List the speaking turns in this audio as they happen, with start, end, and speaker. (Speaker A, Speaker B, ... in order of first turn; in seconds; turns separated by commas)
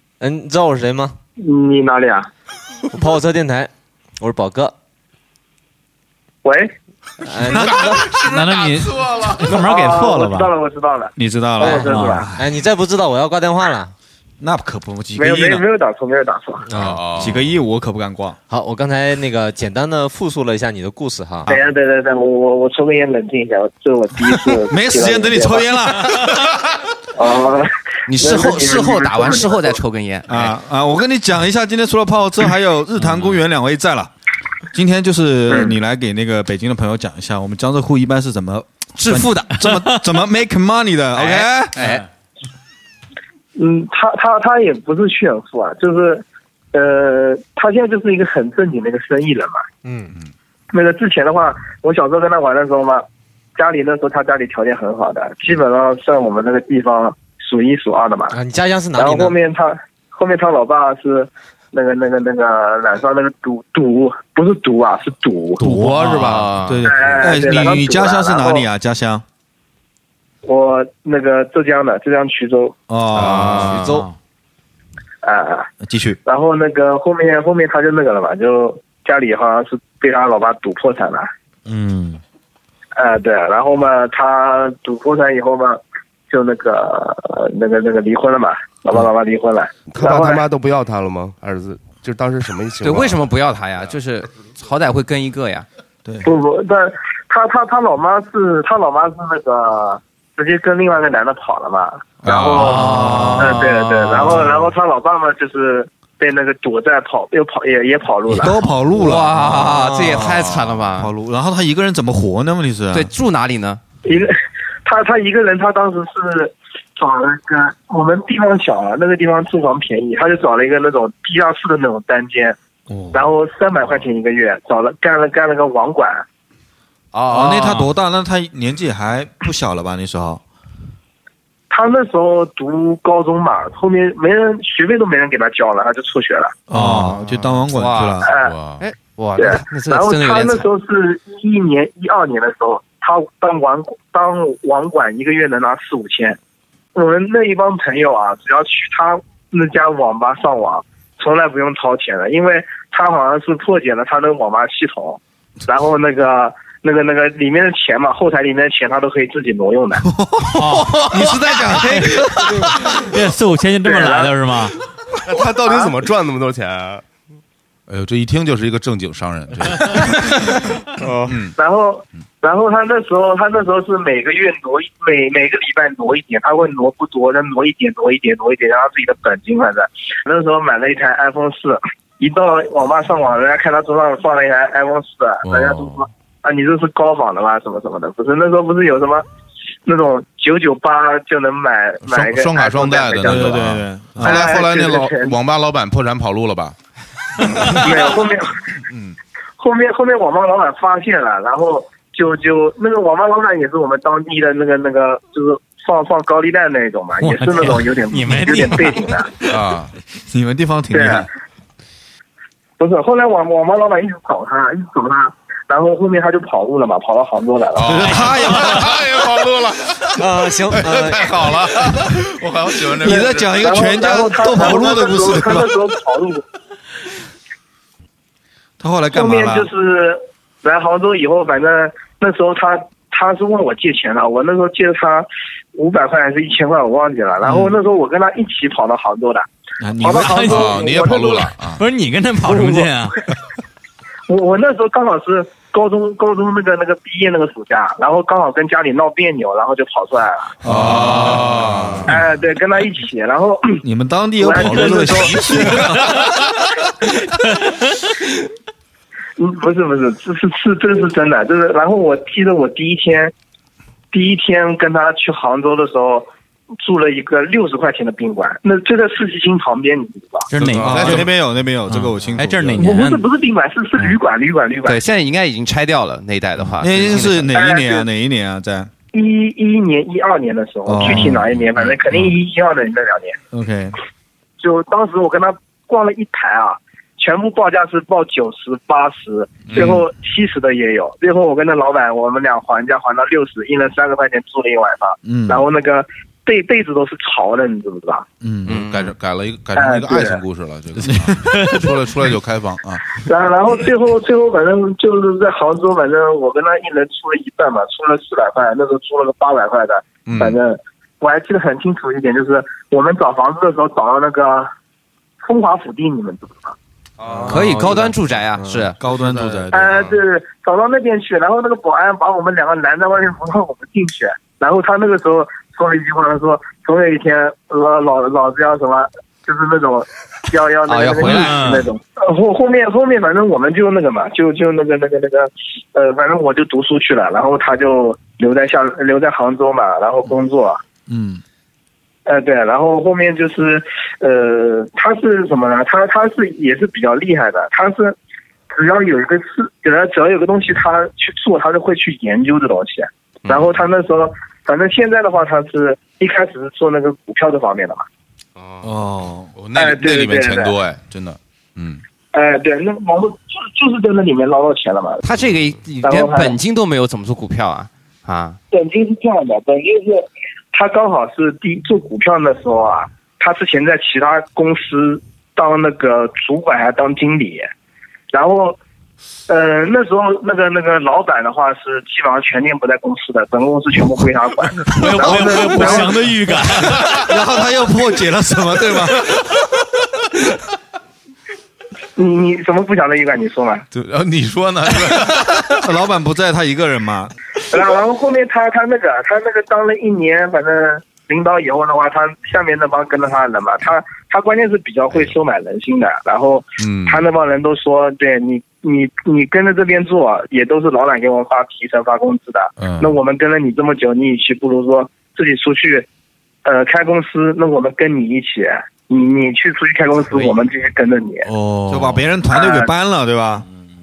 Speaker A: 0.2-1.1, Speaker B: 1.4-2.3, Speaker A: 2.9-4.7, Speaker B: 6.4-6.7, Speaker A: 7.2-8.1, Speaker C: 7.6-9.4, Speaker D: 8.2-10.5, Speaker B: 9.4-12.3, Speaker E: 11.2-12.6, Speaker A: 11.6-13.9, Speaker D: 11.8-12.3, Speaker E: 14.4-15.6, Speaker B: 15.2-16.7, Speaker C: 16.7-17.5, Speaker E: 16.8-18.4, Speaker A: 18.5-21.5, Speaker B: 21.5-25.7, Speaker E: 24.7-26.3, Speaker B: 27.1-29.8, Speaker F: 28.1-30.5, Speaker E: 30.3-34.1, Speaker E: 34.7-41.8, Speaker F: 39.0-39.5, Speaker D: 39.6-40.0, Speaker F: 41.2-42.0, Speaker D: 41.8-42.0, Speaker B: 43.6-49.6, Speaker A: 49.8-50.1, Speaker B: 50.7-53.0, Speaker B: 53.5-58.4, Speaker A: 58.3-59.4, Speaker B: 58.9-65.7, Speaker E: 65.6-69.2, Speaker F: 65.7-66.8, Speaker D: 66.0-66.3, Speaker B: 66.8-68.6, Speaker B: 70.4-72.8, Speaker E: 72.9-73.7, Speaker A: 73.3-74.0, Speaker C: 73.5-73.8, Speaker D: 73.7-74.1, Speaker B: 75.2-75.7, Speaker E: 75.8-76.2, Speaker B: 76.2-81.3, Speaker D: 81.7-82.2, Speaker B: 82.9-90.5, Speaker G: 89.9-93.2, Speaker F: 92.8-95.7, Speaker E: 96.0-96.3, Speaker B: 96.2-108.7, Speaker C: 102.2-102.8, Speaker F: 102.5-104.6, Speaker E: 102.8-103.5, Speaker E: 108.3-110.4, Speaker F: 109.0-111.1, Speaker A: 109.8-110.2, Speaker C: 110.3-110.8, Speaker E: 111.0-113.1, Speaker F: 112.9-113.8, Speaker B: 114.0-114.3, Speaker B: 114.8-122.5, Speaker E: 122.9-123.3, Speaker B: 123.1-126.2, Speaker D: 127.3-127.9, Speaker E: 127.3-130.4, Speaker B: 131.7-136.5, Speaker E: 136.7-138.3, Speaker D: 136.7-137.2, Speaker F: 137.7-140.7, Speaker B: 138.2-138.5, Speaker C: 138.3-138.8, Speaker B: 139.4-146.4, Speaker B: 146.9-160.0, Speaker E: 160.0-162.9, Speaker D: 160.5-164.8, Speaker B: 163.8-164.3, Speaker G: 165.3-167.0, Speaker C: 167.9-170.4, Speaker G: 171.0-171.4, Speaker C: 171.3-171.5, Speaker B: 171.6-189.2, Speaker C: 185.4-186.0, Speaker B: 189.8-193.7, Speaker C: 192.0-196.8, Speaker E: 193.2-194.4, Speaker B: 194.2-195.3, Speaker C: 197.4-198.2, Speaker B: 197.7-198.6, Speaker C: 198.9-199.2, Speaker B: 199.6-209.3, Speaker D: 207.2-209.1, Speaker C: 209.5-209.9, Speaker E: 210.3-211.3, Speaker B: 210.9-211.3, Speaker B: 212.8-218.4, Speaker C: 217.7-223.6, Speaker E: 217.8-219.0, Speaker A: 220.2-221.6, Speaker E: 223.0-225.8, Speaker B: 223.5-226.4, Speaker E: 228.8-229.7, Speaker B: 229.1-239.5, Speaker E: 237.4-237.7, Speaker E: 239.8-240.7, Speaker B: 240.0-241.5, Speaker D: 240.2-240.7, Speaker C: 240.4-241.8, Speaker D: 241.8-243.2, Speaker B: 242.4-242.9, Speaker B: 244.3-250.5, Speaker E: 250.6-252.0, Speaker C: 250.6-252.2, Speaker B: 252.0-253.8, Speaker E: 253.8-256.4, Speaker B: 254.4-255.9, Speaker B: 259.4-263.3, Speaker B: 264.1-266.3, Speaker B: 266.8-270.5, Speaker D: 270.5-271.3, Speaker C: 270.7-271.3, Speaker E: 270.8-273.0, Speaker D: 271.9-273.2, Speaker B: 272.8-275.0, Speaker F: 274.8-277.4, Speaker E: 276.8-278.9, Speaker B: 277.5-278.1, Speaker B: 279.1-283.4, Speaker E: 280.9-281.5, Speaker E: 283.5-283.9, Speaker B: 284.6-298.2, Speaker C: 289.7-290.0, Speaker E: 295.2-295.6, Speaker E: 298.4-298.8, Speaker F: 298.6-299.1, Speaker C: 298.7-303.2, Speaker B: 299.8-300.4, Speaker E: 301.0-301.4, Speaker D: 301.5-301.9, Speaker B: 303.2-314.7, Speaker C: 310.2-310.6, Speaker B: 315.4-316.7, Speaker G: 317.2-317.7, Speaker E: 317.3-318.1, Speaker F: 317.5-319.0, Speaker E: 319.0-320.0, Speaker G: 319.2-320.1, Speaker B: 319.7-340.8, Speaker F: 330.9-331.5, Speaker D: 331.2-331.9, Speaker E: 341.1-341.4, Speaker B: 342.2-348.1, Speaker B: 348.7-358.1, Speaker G: 358.6-358.9, Speaker E: 358.8-359.5, Speaker C: 359.6-362.0, Speaker B: 359.8-360.8, Speaker B: 362.3-365.2, Speaker F: 365.2-368.6, Speaker B: 366.0-366.6, Speaker B: 368.7-377.7, Speaker B: 378.3-378.8, Speaker B: 379.5-386.3, Speaker D: 384.9-387.2, Speaker C: 385.2-385.6, Speaker E: 385.8-386.1, Speaker C: 386.7-387.3, Speaker E: 387.1-389.4, Speaker B: 392.2-393.9, Speaker C: 393.9-395.8, Speaker E: 395.7-397.3, Speaker B: 397.7-416.1, Speaker C: 406.8-407.2, Speaker C: 412.8-413.1, Speaker B: 416.6-421.5, Speaker C: 421.6-422.2, Speaker E: 421.9-423.6, Speaker B: 422.5-422.9